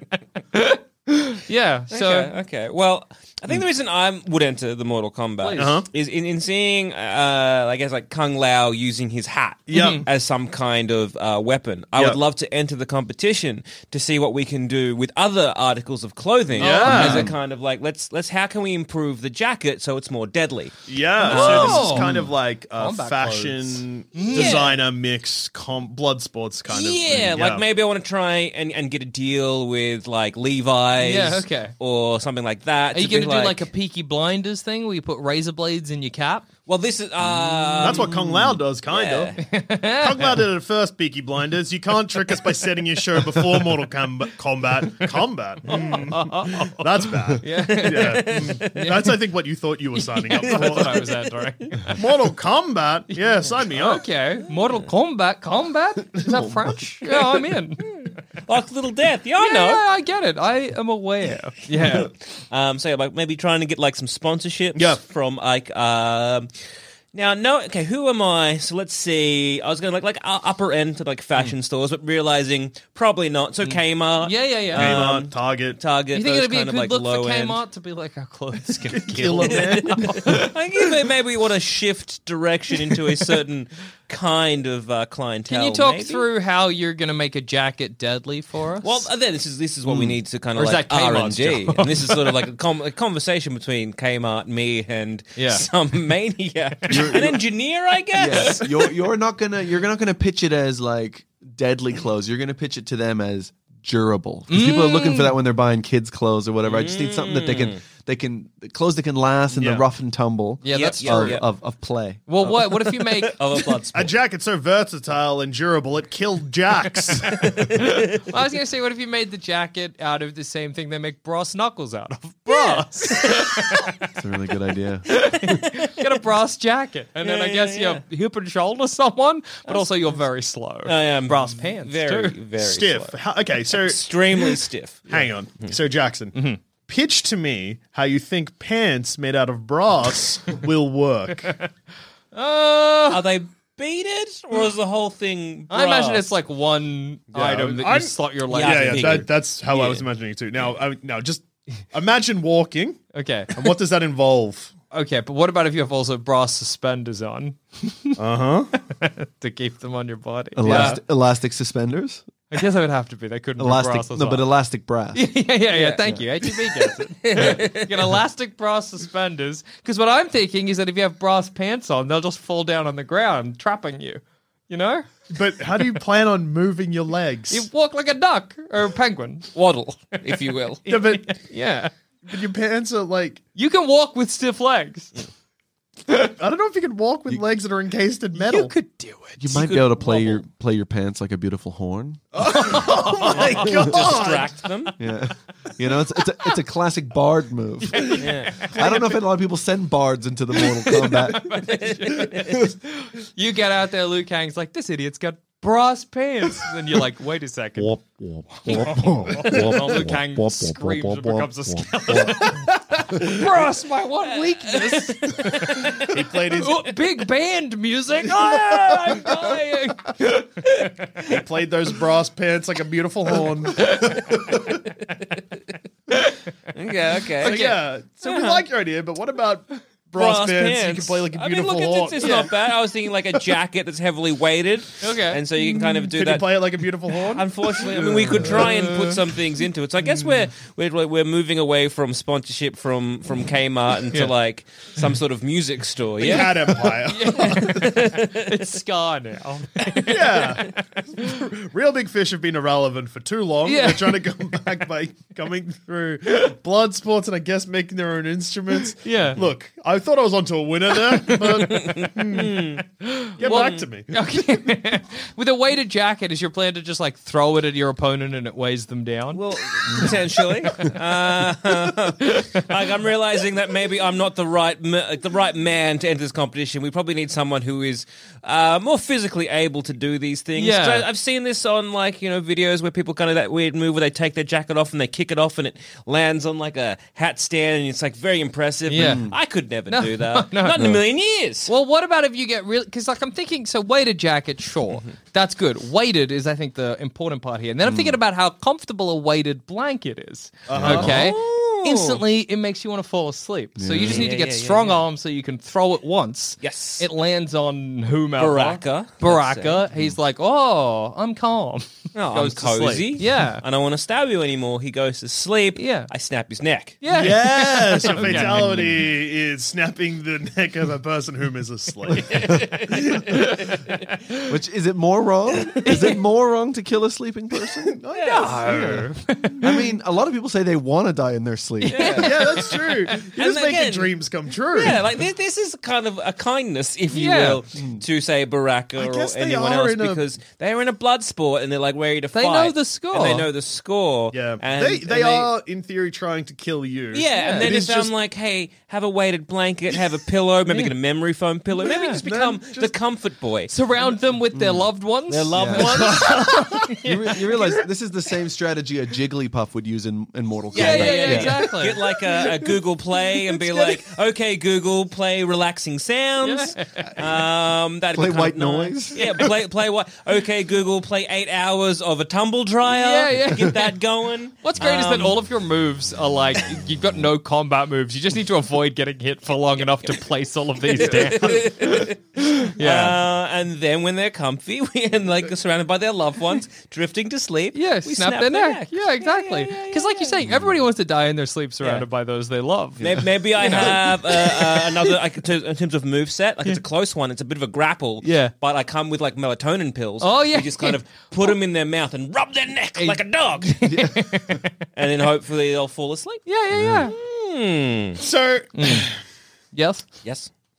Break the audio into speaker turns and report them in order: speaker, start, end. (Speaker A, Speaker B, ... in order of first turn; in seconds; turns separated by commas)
Speaker A: 0.5-2.3, Speaker B: 1.9-22.1, Speaker A: 5.4-5.8, Speaker C: 5.6-5.8, Speaker C: 9.7-10.0, Speaker A: 9.7-10.0, Speaker C: 16.6-17.3, Speaker A: 16.6-17.3, Speaker C: 20.9-27.6, Speaker A: 21.2-22.1, Speaker A: 22.7-24.6, Speaker B: 24.2-24.8, Speaker B: 26.7-33.7, Speaker A: 31.0-31.7, Speaker A: 32.9-36.5, Speaker B: 36.6-38.2, Speaker C: 37.8-39.4, Speaker D: 37.8-38.6, Speaker B: 38.9-39.4, Speaker A: 39.4-40.4, Speaker C: 39.9-51.0, Speaker A: 45.7-49.2, Speaker B: 45.7-46.0, Speaker B: 47.6-48.7, Speaker A: 49.9-52.0, Speaker B: 50.4-51.1, Speaker C: 51.9-54.0, Speaker A: 53.2-57.9, Speaker D: 56.3-56.6, Speaker B: 58.4-59.8, Speaker A: 59.4-62.1, Speaker B: 62.5-66.5, Speaker C: 64.7-65.0, Speaker B: 67.1-77.6, Speaker A: 73.6-75.0, Speaker C: 74.7-75.8, Speaker A: 76.1-80.5, Speaker C: 78.9-80.2, Speaker B: 79.4-86.3, Speaker A: 85.5-89.1, Speaker B: 88.8-98.7, Speaker D: 89.9-90.2, Speaker A: 90.5-92.3, Speaker A: 95.4-95.7, Speaker D: 96.9-97.4, Speaker D: 98.1-112.2, Speaker A: 104.5-105.3, Speaker B: 106.7-107.8, Speaker C: 109.5-109.8, Speaker A: 110.6-111.4, Speaker B: 110.7-111.4, Speaker A: 112.3-113.8, Speaker B: 112.4-114.1, Speaker C: 113.9-117.6, Speaker A: 117.7-123.9, Speaker B: 122.5-123.5, Speaker D: 124.1-125.1, Speaker A: 125.1-132.4, Speaker B: 127.2-128.0, Speaker B: 129.7-130.2, Speaker B: 130.8-133.1, Speaker C: 132.6-134.0, Speaker B: 133.7-135.7, Speaker C: 135.1-136.3, Speaker A: 136.3-136.6, Speaker C: 136.8-141.5, Speaker A: 142.3-143.2, Speaker B: 143.1-146.3, Speaker A: 145.7-149.3, Speaker C: 147.3-153.0, Speaker B: 148.5-150.0, Speaker A: 153.1-153.7, Speaker C: 153.5-154.7, Speaker A: 154.9-158.2, Speaker C: 158.2-158.7, Speaker A: 158.9-161.0, Speaker D: 160.5-162.2, Speaker A: 162.5-164.5, Speaker D: 163.6-165.5, Speaker A: 165.1-175.2, Speaker B: 167.2-168.1, Speaker C: 175.3-177.7, Speaker A: 177.5-181.9, Speaker B: 179.5-180.8, Speaker C: 180.8-181.4, Speaker C: 182.2-183.4, Speaker A: 183.5-185.1, Speaker C: 186.4-188.7, Speaker A: 188.3-189.7, Speaker D: 189.4-192.2, Speaker B: 189.6-190.4, Speaker C: 192.3-194.6, Speaker A: 192.4-193.7, Speaker B: 193.3-194.9, Speaker D: 195.0-201.6, Speaker A: 197.9-199.2, Speaker B: 198.2-198.7, Speaker A: 200.6-208.0, Speaker B: 201.6-202.6, Speaker D: 207.8-212.3, Speaker A: 208.5-220.9, Speaker B: 209.6-210.0, Speaker B: 214.6-216.1, Speaker C: 216.0-216.9, Speaker B: 218.5-219.7, Speaker C: 221.2-224.2, Speaker A: 223.8-224.2, Speaker A: 226.1-226.4, Speaker B: 226.7-228.6, Speaker C: 227.4-232.5, Speaker A: 227.4-227.7, Speaker B: 230.1-246.9, Speaker A: 232.2-232.5, Speaker A: 235.0-235.4, Speaker C: 235.6-238.7, Speaker A: 238.4-239.2, Speaker C: 246.2-247.8, Speaker A: 246.3-251.3, Speaker B: 247.5-248.6, Speaker C: 250.1-262.8, Speaker A: 253.6-254.3, Speaker A: 258.9-259.4, Speaker B: 261.4-262.8, Speaker A: 263.0-269.4, Speaker C: 263.4-264.2, Speaker B: 263.4-263.8, Speaker B: 269.3-291.7, Speaker A: 272.2-272.6, Speaker A: 280.6-281.1, Speaker A: 288.9-289.2, Speaker D: 288.9-289.4, Speaker A: 289.9-290.9, Speaker A: 291.6-313.6, Speaker D: 297.8-298.2, Speaker C: 300.7-301.1, Speaker D: 300.7-301.1, Speaker B: 300.8-302.2, Speaker D: 303.8-304.3, Speaker B: 304.0-305.0, Speaker B: 306.6-307.1, Speaker B: 308.4-309.8, Speaker B: 312.1-317.0, Speaker A: 315.8-316.1, Speaker A: 317.0-318.7, Speaker C: 317.1-322.5, Speaker D: 318.4-319.1, Speaker B: 322.4-323.1, Speaker D: 324.4-328.0, Speaker A: 325.8-326.1, Speaker C: 327.9-329.1, Speaker B: 328.1-328.6, Speaker A: 328.2-329.7, Speaker D: 329.6-332.2, Speaker A: 331.8-333.2, Speaker B: 331.9-334.2, Speaker C: 332.1-335.0, Speaker B: 334.7-345.5, Speaker A: 337.1-337.6, Speaker D: 337.7-338.0, Speaker C: 338.9-340.2, Speaker A: 342.3-343.5, Speaker C: 344.3-348.1, Speaker B: 347.1-353.7, Speaker A: 347.4-347.7, Speaker A: 351.8-352.2, Speaker C: 352.1-352.9, Speaker A: 353.7-357.8, Speaker D: 354.5-354.9, Speaker B: 355.3-356.6, Speaker D: 355.5-356.1, Speaker C: 356.0-356.9, Speaker D: 357.0-361.8, Speaker B: 360.7-375.4, Speaker A: 360.7-362.0, Speaker A: 366.4-367.1, Speaker D: 368.1-369.5, Speaker A: 372.9-373.9, Speaker A: 374.6-383.2, Speaker B: 380.9-382.2, Speaker B: 382.8-390.4, Speaker A: 387.7-393.0, Speaker D: 390.4-390.8, Speaker D: 393.0-394.0, Speaker B: 393.0-403.8, Speaker A: 393.6-395.1, Speaker A: 398.2-398.5, Speaker A: 400.2-401.5, Speaker A: 402.9-404.7, Speaker D: 403.8-404.6, Speaker B: 404.9-406.4, Speaker A: 406.4-407.1, Speaker D: 406.7-407.1, Speaker B: 407.1-408.2, Speaker C: 408.2-409.1, Speaker A: 408.7-409.1, Speaker A: 409.7-410.0, Speaker B: 410.2-410.5